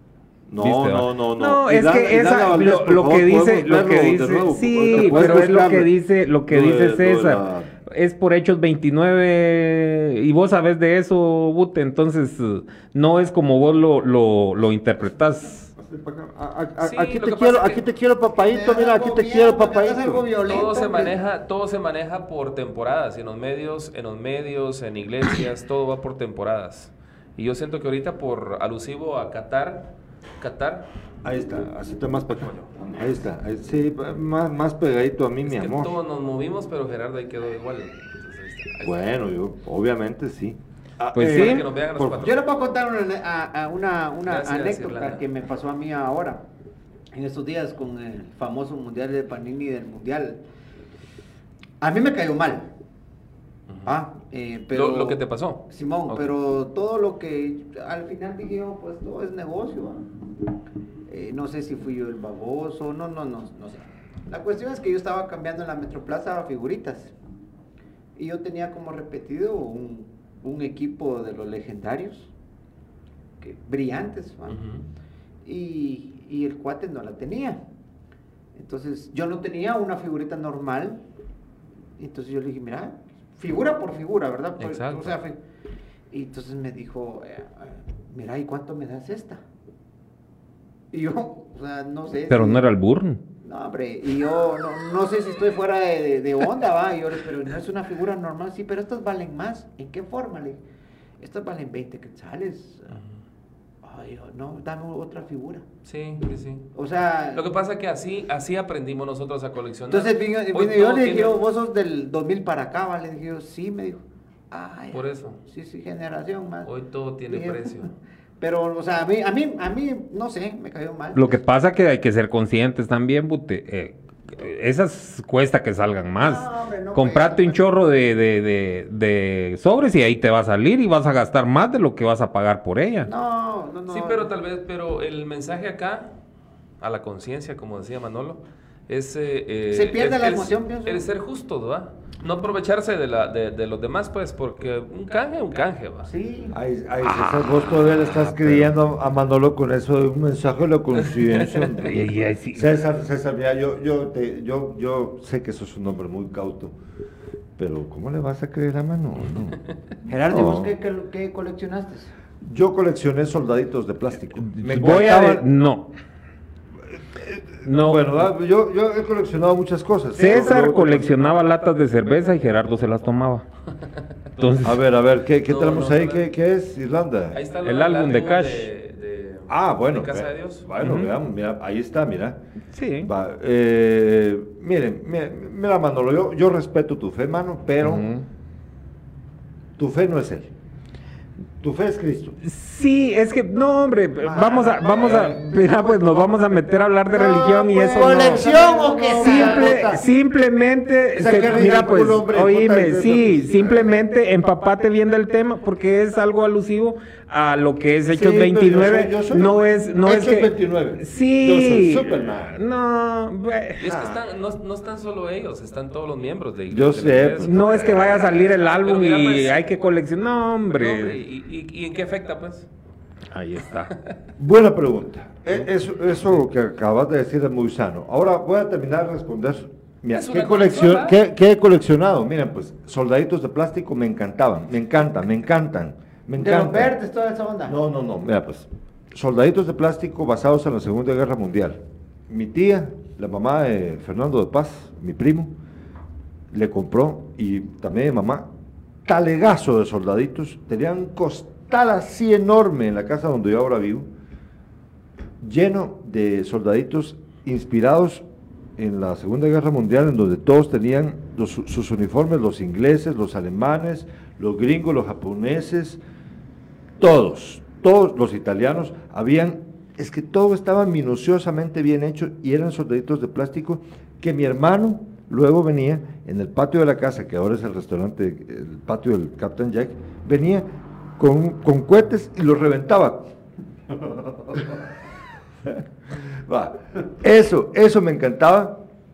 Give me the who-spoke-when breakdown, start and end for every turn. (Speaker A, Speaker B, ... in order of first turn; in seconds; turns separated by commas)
Speaker A: 0.5-5.9, Speaker B: 0.6-15.7, Speaker A: 6.5-7.7, Speaker A: 15.8-20.3, Speaker C: 16.8-17.9, Speaker D: 18.4-21.1, Speaker C: 20.5-30.9, Speaker A: 31.2-36.0, Speaker C: 35.5-39.0, Speaker A: 38.8-42.3, Speaker B: 41.1-41.6, Speaker C: 41.2-42.4, Speaker D: 42.2-46.4, Speaker C: 44.3-45.2, Speaker D: 47.1-50.4, Speaker D: 51.8-52.7, Speaker D: 53.9-60.0, Speaker C: 54.7-56.3, Speaker D: 61.1-67.1, Speaker D: 68.2-72.3, Speaker D: 73.4-74.6, Speaker C: 74.5-74.8, Speaker D: 75.4-77.6, Speaker D: 78.5-81.0, Speaker D: 82.0-85.4, Speaker C: 84.6-85.2, Speaker D: 86.1-89.4, Speaker D: 90.9-92.7, Speaker B: 92.3-93.2, Speaker D: 93.4-100.6, Speaker D: 101.2-103.0, Speaker D: 103.8-105.6, Speaker C: 105.8-106.7, Speaker D: 106.8-107.4, Speaker C: 107.3-111.4, Speaker D: 109.9-116.7, Speaker C: 114.9-115.4, Speaker C: 116.7-117.9, Speaker D: 117.3-117.9, Speaker D: 118.4-121.4, Speaker B: 121.1-133.1, Speaker D: 126.2-127.6, Speaker D: 133.1-134.3, Speaker C: 133.9-136.1, Speaker C: 136.8-146.1, Speaker D: 139.7-141.1, Speaker D: 146.1-146.6, Speaker A: 146.5-156.8, Speaker B: 147.0-148.7, Speaker B: 151.8-152.7, Speaker A: 157.6-159.6, Speaker D: 160.1-162.1, Speaker A: 160.3-160.7, Speaker A: 162.4-165.5, Speaker B: 164.5-165.9, Speaker A: 167.2-171.2, Speaker B: 167.6-168.1, Speaker B: 170.2-173.5, Speaker B: 174.4-174.8, Speaker A: 174.6-177.4, Speaker C: 175.5-176.3, Speaker C: 177.3-180.7, Speaker B: 177.6-178.7, Speaker A: 179.5-182.4, Speaker B: 180.8-181.1, Speaker B: 182.7-183.1, Speaker A: 183.0-188.1, Speaker B: 187.8-188.2, Speaker A: 189.8-190.5, Speaker A: 191.6-192.4, Speaker B: 192.4-198.5, Speaker A: 194.2-195.4, Speaker A: 197.2-200.1, Speaker D: 197.7-199.9, Speaker B: 199.2-214.2, Speaker A: 201.2-204.0, Speaker A: 208.1-212.6, Speaker C: 213.8-219.7, Speaker A: 216.7-218.3, Speaker B: 217.4-221.2, Speaker C: 220.7-222.7, Speaker B: 223.3-223.9, Speaker A: 224.4-236.9, Speaker C: 230.1-231.2, Speaker D: 236.4-237.8, Speaker A: 237.7-245.5, Speaker A: 246.5-248.5, Speaker A: 249.1-254.1, Speaker A: 255.4-258.2, Speaker A: 258.8-266.0, Speaker A: 267.0-280.7, Speaker A: 281.2-283.3, Speaker A: 283.9-284.8, Speaker A: 286.3-288.8